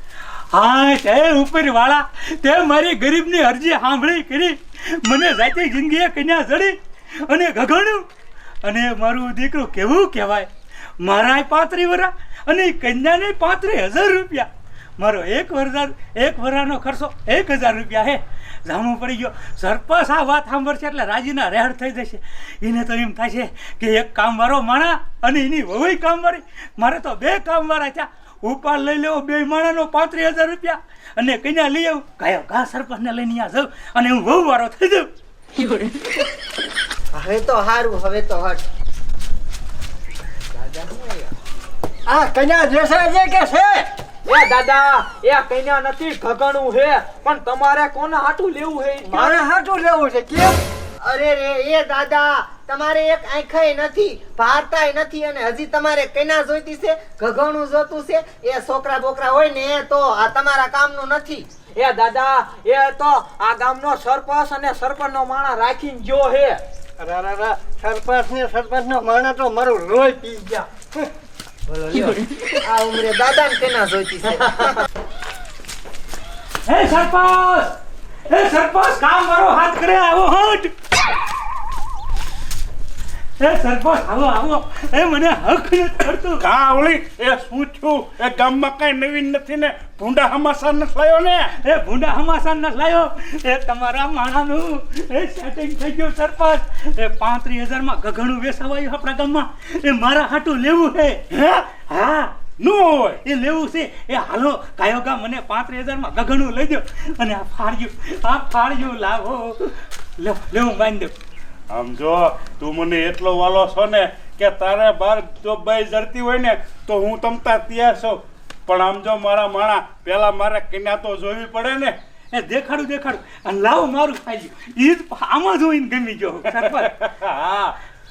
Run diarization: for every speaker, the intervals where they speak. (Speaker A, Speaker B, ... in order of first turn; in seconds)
Speaker A: 0.5-8.1, 8.6-10.5, 11.0-14.5, 15.0-35.1, 76.7-77.7, 78.3-80.7, 83.4-86.4, 91.6-102.3, 103.2-111.1, 122.3-126.9
Speaker B: 37.1-38.6, 40.5-41.3, 51.0-61.5, 72.5-74.8
Speaker C: 42.1-50.5, 61.7-66.6, 71.7-72.2
Speaker D: 49.1-49.5, 67.0-70.6
Speaker E: 86.4-91.5, 102.6-103.2, 111.7-121.9, 126.7-127.7